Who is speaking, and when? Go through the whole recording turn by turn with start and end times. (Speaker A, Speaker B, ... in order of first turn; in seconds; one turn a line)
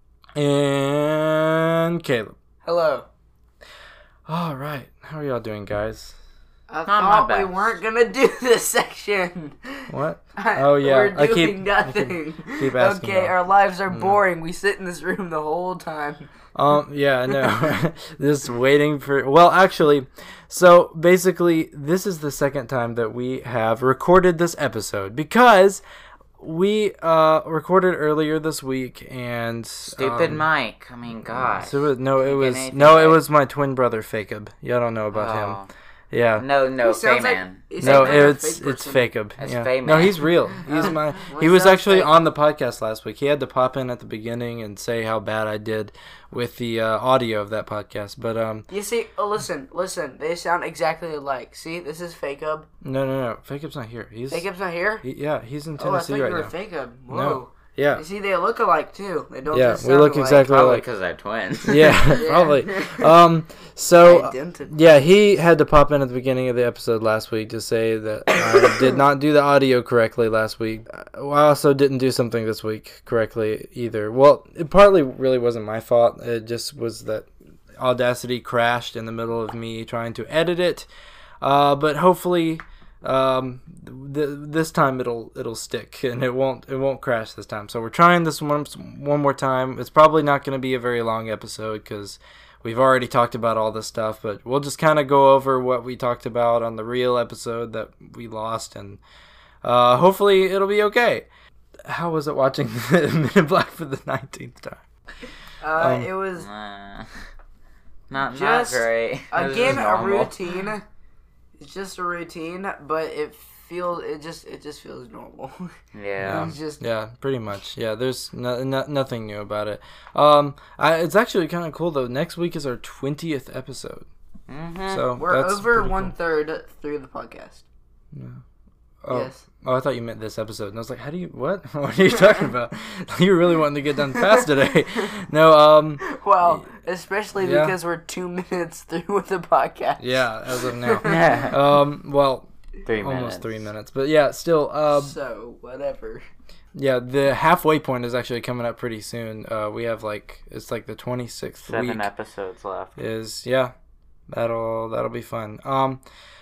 Speaker A: 0.4-2.4
Speaker B: 2.6-3.1
Speaker A: 4.3-6.2
Speaker B: 6.7-16.3
Speaker C: 6.8-7.8
Speaker A: 9.9-13.3
Speaker A: 13.9-14.2
Speaker A: 16.6-25.8
Speaker B: 17.3-17.8
Speaker A: 26.4-30.5
Speaker C: 29.9-33.2
Speaker A: 31.2-36.5
Speaker C: 35.1-35.7
Speaker C: 36.4-38.3
Speaker B: 36.8-39.1
Speaker A: 37.8-48.7
Speaker C: 39.4-40.2
Speaker B: 40.6-42.1
Speaker B: 48.7-52.7
Speaker A: 52.8-54.5
Speaker B: 54.3-55.0
Speaker A: 55.0-56.5
Speaker B: 55.8-60.6
Speaker A: 57.1-58.0
Speaker A: 59.5-60.9
Speaker C: 60.5-62.0
Speaker A: 61.6-80.9
Speaker B: 62.0-63.2
Speaker B: 64.0-64.8
Speaker A: 81.4-99.0
Speaker A: 99.6-101.3
Speaker A: 101.9-104.8
Speaker B: 105.6-106.5
Speaker A: 105.8-106.1
Speaker C: 106.4-107.1
Speaker C: 108.1-110.3
Speaker B: 108.3-110.8
Speaker B: 111.6-115.6
Speaker C: 115.9-116.5
Speaker A: 116.2-124.1
Speaker B: 116.3-116.8
Speaker C: 124.5-125.0
Speaker A: 124.9-126.2
Speaker B: 125.2-127.7
Speaker A: 128.1-128.4
Speaker A: 129.0-136.7
Speaker B: 129.1-129.4
Speaker B: 132.1-132.5
Speaker B: 134.1-135.1
Speaker B: 136.0-141.5
Speaker A: 137.4-137.8
Speaker A: 140.0-145.2
Speaker C: 141.0-141.6
Speaker C: 142.8-143.7
Speaker B: 144.9-146.2
Speaker A: 146.8-152.1
Speaker C: 151.7-153.0
Speaker A: 153.0-153.7
Speaker A: 154.3-156.0